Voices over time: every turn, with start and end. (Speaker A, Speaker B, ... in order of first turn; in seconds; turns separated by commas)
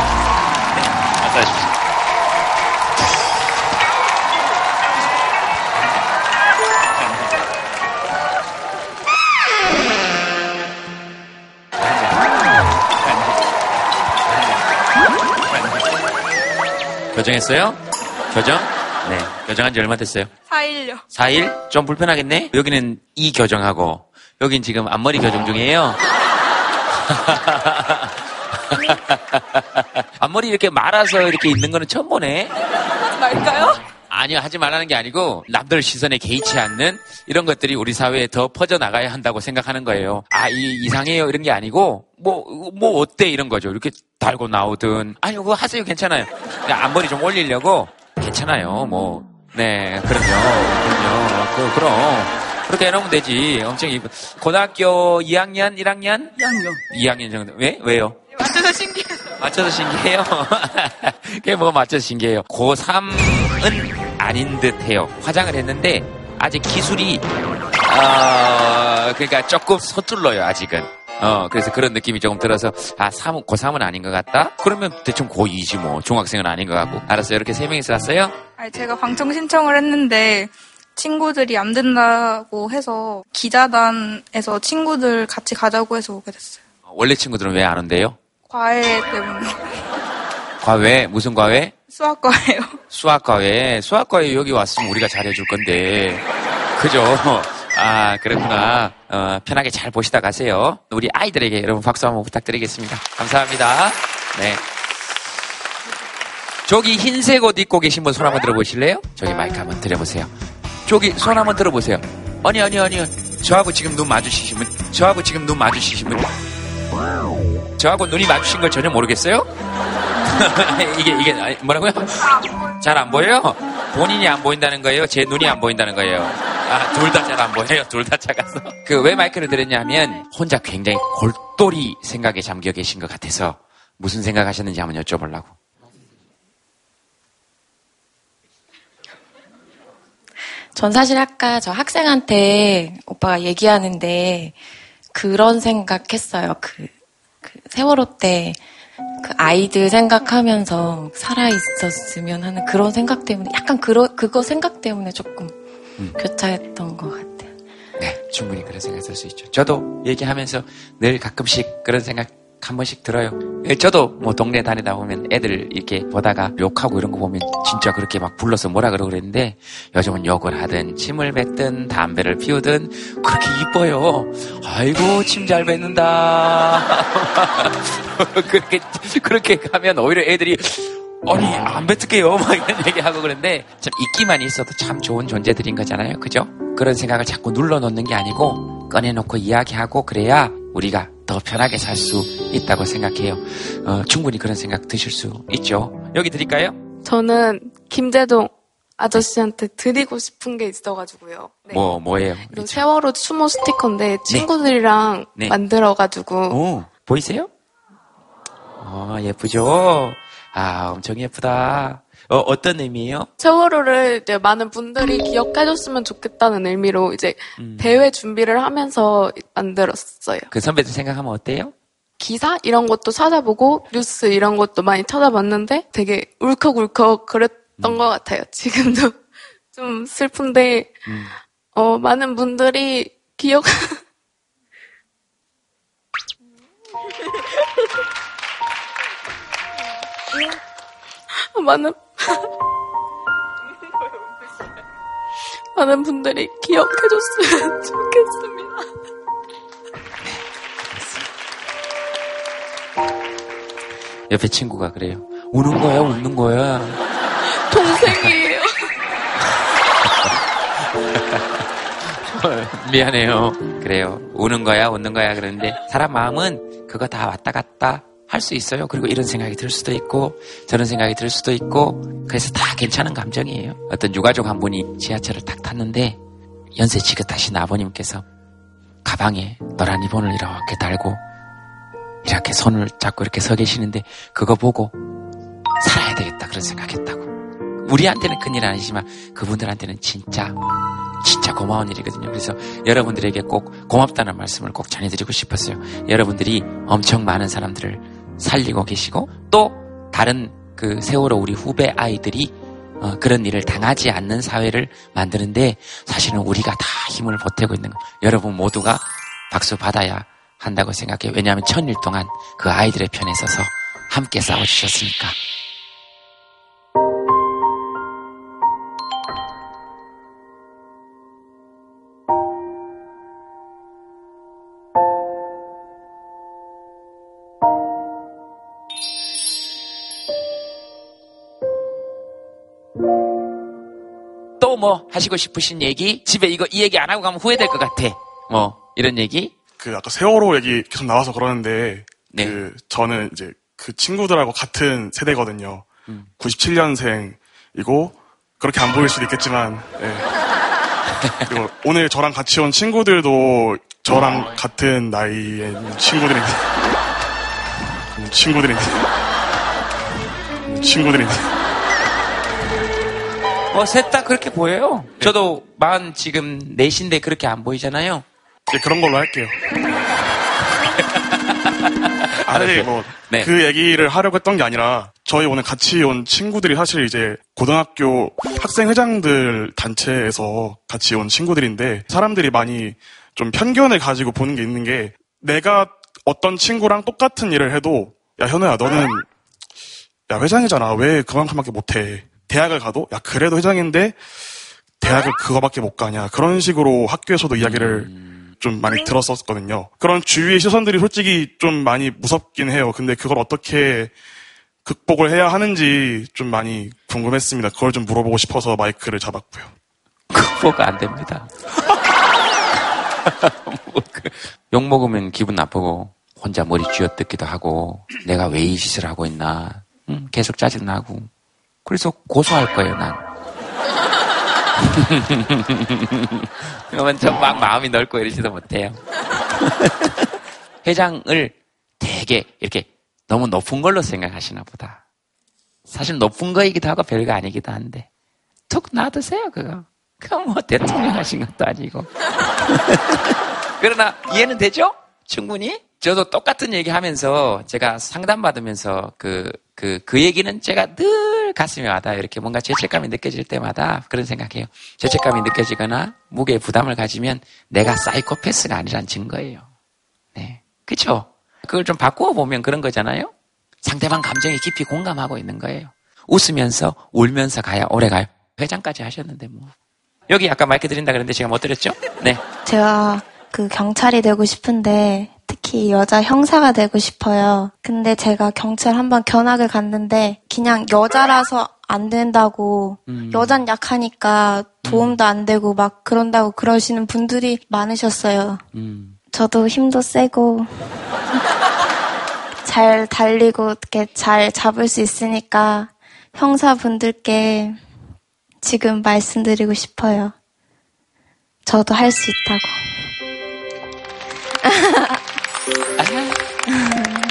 Speaker A: 1.2-1.6, Speaker A: 17.1-17.8, Speaker A: 18.3-20.3, Speaker B: 20.5-21.0, Speaker A: 21.1-26.0, Speaker A: 27.1-28.1, Speaker A: 28.7-32.5, Speaker A: 34.1-58.2, Speaker B: 58.5-59.0, Speaker A: 59.4-67.2, Speaker A: 67.8-78.3, Speaker B: 78.6-86.6, Speaker A: 86.9-88.2, Speaker B: 88.5-89.8, Speaker A: 90.6-91.7, Speaker B: 91.9-92.8, Speaker A: 92.9-96.2, Speaker A: 96.8-104.6, Speaker A: 106.7-110.3, Speaker A: 110.8-116.3, Speaker A: 117.8-119.5, Speaker A: 120.2-135.6, Speaker C: 140.7-144.6, Speaker C: 145.1-146.9, Speaker C: 147.4-148.6, Speaker C: 149.2-155.6, Speaker C: 156.1-157.5, Speaker A: 158.0-196.8, Speaker D: 197.0-201.9, Speaker A: 201.7-202.9, Speaker D: 202.4-206.6, Speaker A: 206.5-207.5, Speaker A: 208.8-213.3, Speaker D: 213.4-220.5, Speaker A: 217.6-218.0, Speaker A: 220.5-221.7, Speaker D: 222.2-229.2, Speaker D: 229.7-230.9, Speaker A: 231.1-231.3, Speaker D: 231.7-234.0, Speaker D: 241.4-242.4, Speaker D: 245.7-248.8, Speaker A: 250.2-251.3, Speaker A: 254.3-257.0, Speaker D: 257.4-258.7, Speaker A: 257.8-258.3, Speaker A: 261.1-261.6, Speaker A: 262.1-276.2, Speaker A: 276.7-278.2, Speaker A: 279.0-281.2, Speaker A: 282.2-284.9, Speaker A: 285.8-290.6, Speaker A: 291.2-315.4, Speaker A: 334.6-339.5, Speaker E: 339.8-350.3, Speaker A: 342.3-342.6, Speaker A: 351.2-351.5, Speaker E: 351.5-356.7, Speaker E: 358.1-359.1, Speaker E: 360.6-361.5, Speaker A: 363.7-368.2, Speaker E: 368.7-369.6, Speaker A: 371.2-371.5, Speaker E: 372.5-389.3, Speaker A: 372.5-373.5, Speaker E: 390.3-394.2, Speaker E: 395.0-404.1, Speaker A: 397.6-398.4, Speaker E: 404.8-409.7, Speaker A: 410.3-411.5, Speaker A: 413.2-421.3, Speaker A: 421.8-423.2, Speaker A: 424.8-429.0, Speaker A: 429.6-430.2, Speaker A: 430.8-435.0, Speaker A: 435.9-438.1, Speaker A: 438.7-442.1, Speaker A: 442.7-459.7, Speaker A: 460.3-463.3, Speaker A: 463.8-469.7, Speaker A: 470.3-472.4, Speaker F: 472.6-488.6, Speaker A: 483.1-483.6, Speaker A: 484.8-485.2, Speaker A: 488.7-489.1, Speaker F: 489.3-490.9, Speaker F: 492.6-497.8, Speaker F: 498.6-500.3, Speaker F: 501.6-503.1